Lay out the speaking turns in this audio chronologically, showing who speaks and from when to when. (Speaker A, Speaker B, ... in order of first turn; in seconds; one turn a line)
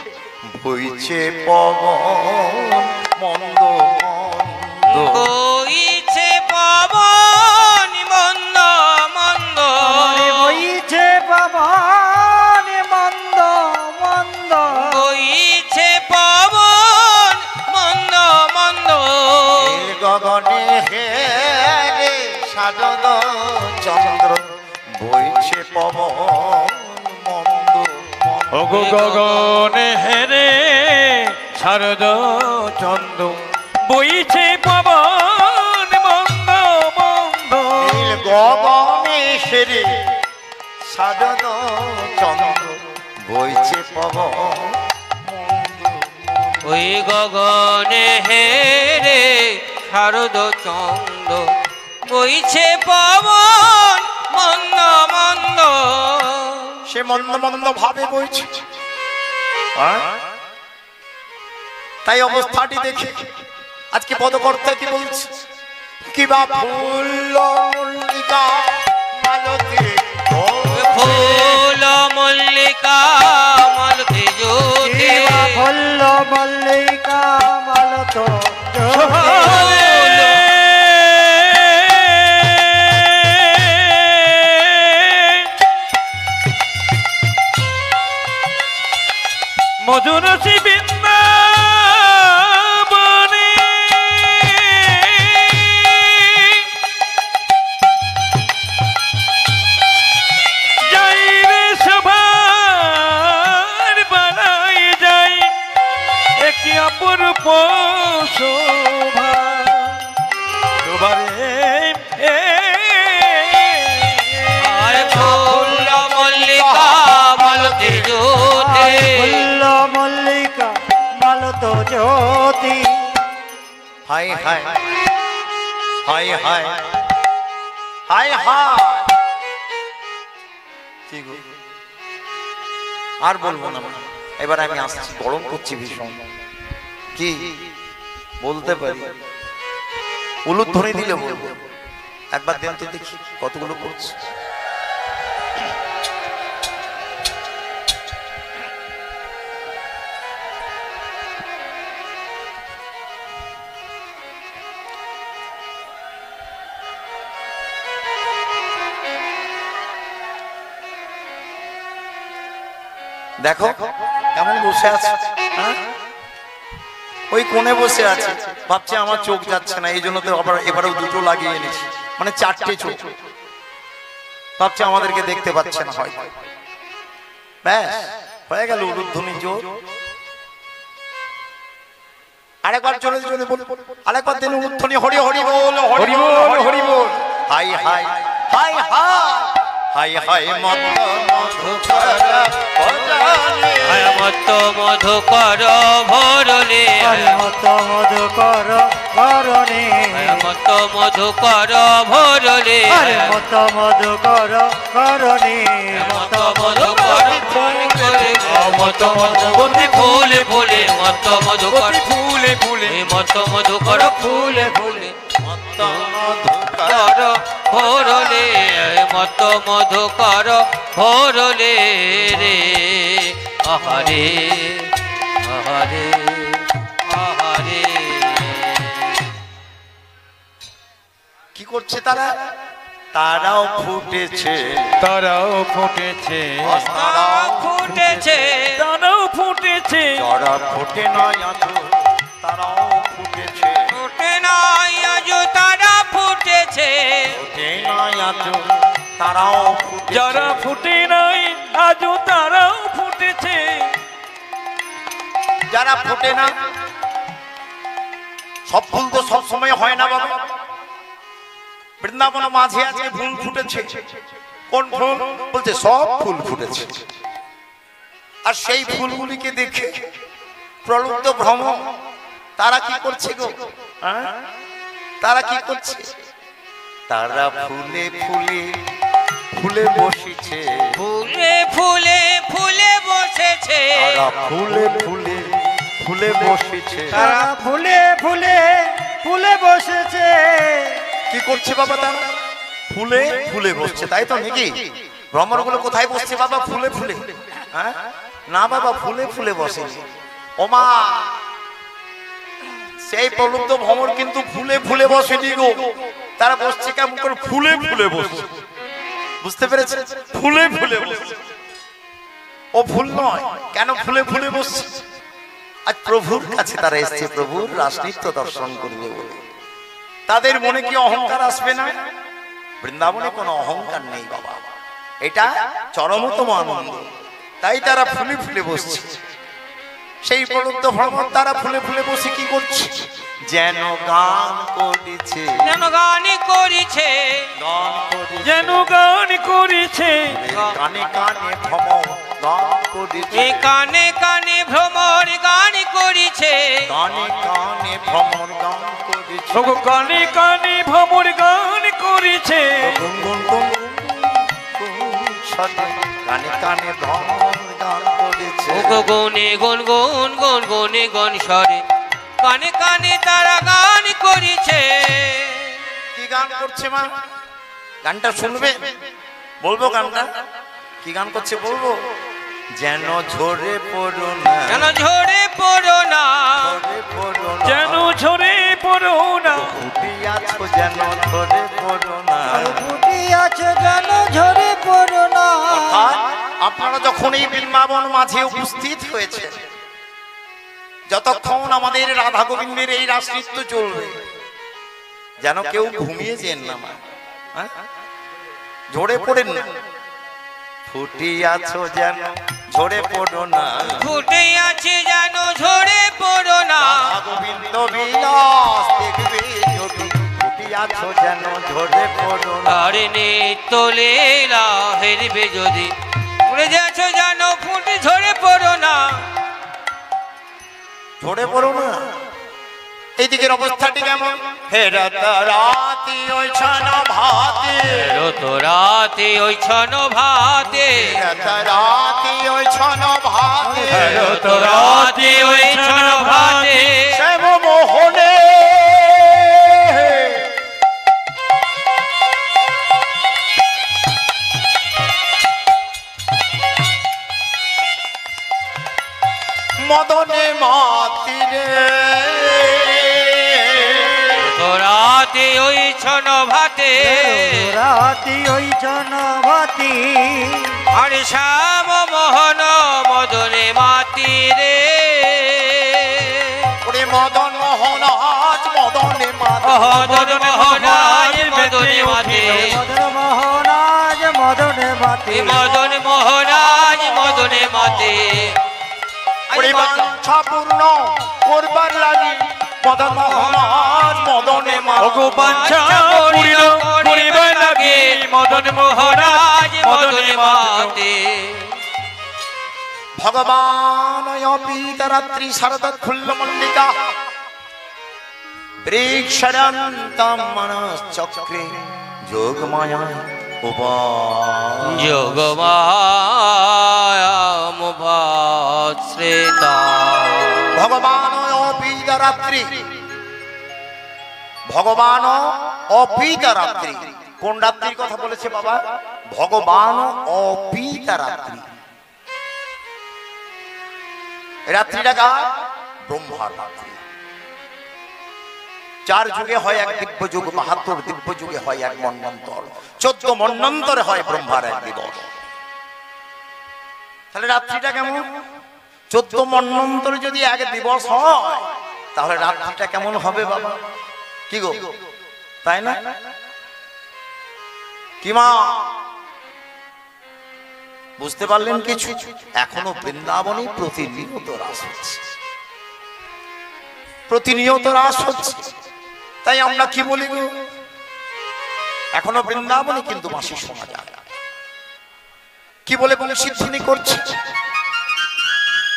Speaker A: 0.5-5.3
Speaker B: 4.9-10.6
Speaker C: 9.8-15.0
Speaker B: 14.7-19.8
Speaker A: 19.5-24.4
Speaker A: 25.0-28.6
Speaker D: 28.5-38.1
Speaker B: 28.7-29.4
Speaker A: 37.8-40.0
Speaker A: 40.8-46.2
Speaker B: 46.6-51.5
Speaker B: 52.0-56.8
Speaker A: 56.9-58.5
Speaker A: 59.8-60.2
Speaker A: 62.0-63.3
Speaker A: 63.9-65.3
Speaker A: 66.0-71.6
Speaker B: 70.7-75.6
Speaker C: 74.8-79.9
Speaker D: 78.9-85.5
Speaker B: 79.0-80.5
Speaker D: 89.8-96.7
Speaker D: 100.8-105.5
Speaker D: 106.4-110.1
Speaker D: 110.8-114.7
Speaker B: 114.6-119.5
Speaker A: 115.0-118.1
Speaker C: 118.4-123.1
Speaker A: 124.1-124.8
Speaker A: 126.0-126.8
Speaker A: 128.1-129.1
Speaker A: 131.1-131.4
Speaker A: 133.2-136.2
Speaker A: 137.1-137.6
Speaker A: 138.4-139.1
Speaker A: 140.4-141.6
Speaker A: 142.3-144.2
Speaker A: 163.4-165.8
Speaker A: 167.3-173.1
Speaker A: 174.6-176.3
Speaker A: 177.6-179.7
Speaker A: 182.6-194.3
Speaker D: 185.9-187.1
Speaker B: 193.8-197.4
Speaker C: 197.0-200.5
Speaker B: 200.1-203.4
Speaker C: 202.9-207.6
Speaker B: 205.9-212.0
Speaker D: 207.1-213.2
Speaker B: 212.8-215.1
Speaker C: 213.9-215.1
Speaker A: 215.4-217.2
Speaker B: 216.8-229.0
Speaker A: 231.5-232.3
Speaker A: 233.1-234.9
Speaker D: 235.0-236.9
Speaker A: 236.6-238.3
Speaker B: 236.9-238.8
Speaker D: 238.7-240.2
Speaker A: 240.2-241.9
Speaker A: 242.4-243.9
Speaker B: 243.9-247.3
Speaker A: 247.3-248.6
Speaker A: 249.2-250.6
Speaker D: 250.1-253.9
Speaker A: 255.7-256.5
Speaker A: 258.7-260.4
Speaker A: 262.0-264.0
Speaker A: 264.7-267.0
Speaker A: 268.4-270.0
Speaker A: 270.8-271.8
Speaker A: 272.6-274.3
Speaker A: 275.2-276.1
Speaker A: 277.1-278.7
Speaker A: 279.5-280.9
Speaker B: 281.0-284.2
Speaker A: 283.9-287.2
Speaker C: 287.1-291.0
Speaker B: 287.1-287.5
Speaker A: 291.3-292.2
Speaker A: 292.9-294.7
Speaker A: 295.3-300.0
Speaker A: 300.6-301.3
Speaker A: 303.1-308.5
Speaker A: 309.4-311.4
Speaker A: 312.7-314.9
Speaker A: 315.9-319.4
Speaker A: 320.3-321.9
Speaker A: 322.8-324.6
Speaker A: 325.2-327.1
Speaker A: 327.6-329.2
Speaker A: 330.2-335.8
Speaker B: 335.6-337.5
Speaker A: 337.6-338.8
Speaker D: 338.4-340.4
Speaker A: 340.3-343.7
Speaker B: 343.3-346.8
Speaker A: 346.9-349.9
Speaker D: 349.5-353.0
Speaker A: 352.8-359.0
Speaker B: 358.7-361.8
Speaker B: 362.4-365.8
Speaker A: 366.1-367.1
Speaker A: 368.0-368.9
Speaker A: 369.6-370.3
Speaker A: 371.0-371.9
Speaker A: 372.8-374.9
Speaker B: 374.7-376.7
Speaker A: 376.6-378.1
Speaker D: 377.6-379.7
Speaker A: 379.5-382.8
Speaker C: 382.5-386.1
Speaker A: 385.7-389.5
Speaker A: 391.1-394.2
Speaker A: 395.4-397.0
Speaker A: 398.9-399.7
Speaker A: 400.9-404.0
Speaker B: 403.8-407.1
Speaker A: 406.8-413.0
Speaker B: 412.6-415.9
Speaker B: 416.4-419.2
Speaker A: 421.2-422.1
Speaker A: 423.2-428.1
Speaker B: 427.8-431.1
Speaker A: 430.9-434.4
Speaker C: 433.7-434.2
Speaker D: 433.9-436.9
Speaker B: 434.0-437.2
Speaker A: 437.1-440.5
Speaker A: 449.8-454.5
Speaker B: 454.4-457.7
Speaker C: 456.9-460.8
Speaker B: 460.9-466.7
Speaker A: 466.8-470.0
Speaker B: 469.6-472.8
Speaker D: 469.7-472.8
Speaker C: 472.5-475.8
Speaker B: 475.3-478.6
Speaker A: 476.5-478.1
Speaker B: 479.5-480.1
Speaker A: 479.5-485.6
Speaker D: 485.0-491.0
Speaker B: 485.2-491.7
Speaker A: 493.2-497.0
Speaker A: 498.8-505.5
Speaker B: 504.8-510.7
Speaker A: 510.7-512.8
Speaker A: 514.7-518.8
Speaker A: 519.3-521.6
Speaker A: 524.7-525.5
Speaker A: 526.1-527.0
Speaker A: 529.0-535.2
Speaker A: 537.3-538.2
Speaker A: 539.1-543.8
Speaker A: 544.5-544.9
Speaker A: 545.6-546.0
Speaker A: 548.2-548.9
Speaker A: 551.2-555.2
Speaker A: 557.3-558.7
Speaker A: 559.4-560.5
Speaker A: 562.2-564.2
Speaker A: 565.9-567.3